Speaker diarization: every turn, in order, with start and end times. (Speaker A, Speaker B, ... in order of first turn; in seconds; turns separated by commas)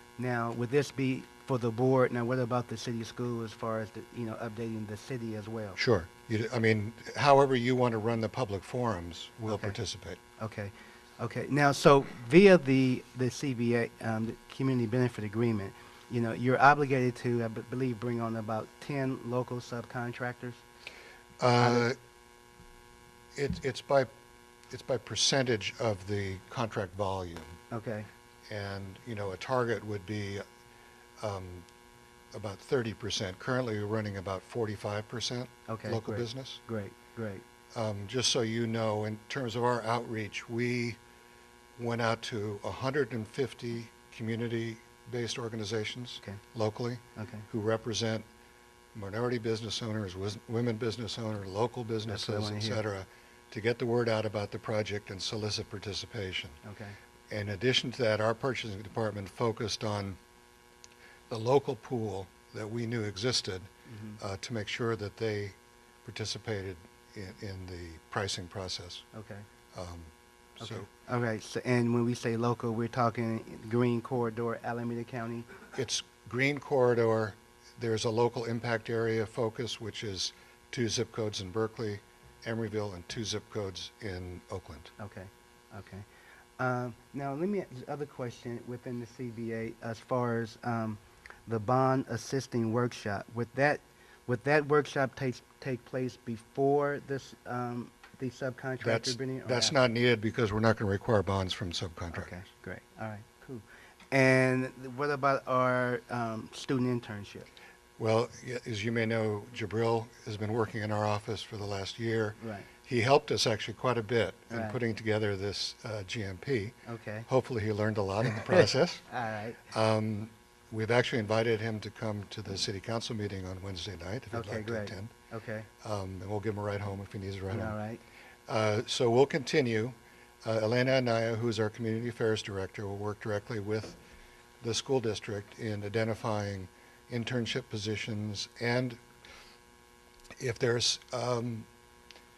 Speaker A: 0.2-5.8, Speaker B: 5.8-10.2, Speaker A: 9.5-9.8, Speaker A: 10.4-20.6, Speaker B: 21.4-22.0, Speaker A: 21.6-21.9, Speaker B: 23.4-24.1, Speaker B: 24.7-27.6, Speaker A: 27.7-28.1, Speaker B: 28.5-30.4, Speaker B: 31.2-31.7, Speaker B: 32.3-36.6, Speaker A: 35.7-37.4, Speaker B: 37.7-41.0, Speaker B: 41.8-48.3, Speaker A: 47.2-47.5, Speaker B: 49.0-56.6, Speaker A: 52.1-52.8, Speaker A: 56.6-57.0, Speaker B: 57.3-60.2, Speaker B: 61.3-69.1, Speaker A: 63.9-64.2, Speaker A: 69.1-69.5, Speaker B: 69.7-70.9, Speaker A: 70.6-75.5, Speaker B: 75.7-84.9, Speaker A: 85.0-86.1, Speaker A: 86.6-99.8, Speaker B: 98.8-102.3, Speaker A: 102.1-107.5, Speaker B: 108.0-119.0, Speaker A: 112.4-112.7, Speaker A: 114.5-114.8, Speaker A: 116.9-117.3, Speaker A: 119.1-119.6, Speaker B: 119.7-125.1, Speaker A: 124.3-125.7, Speaker B: 125.8-127.8, Speaker A: 127.5-128.0, Speaker B: 128.5-134.0, Speaker B: 134.6-139.0, Speaker B: 140.4-141.7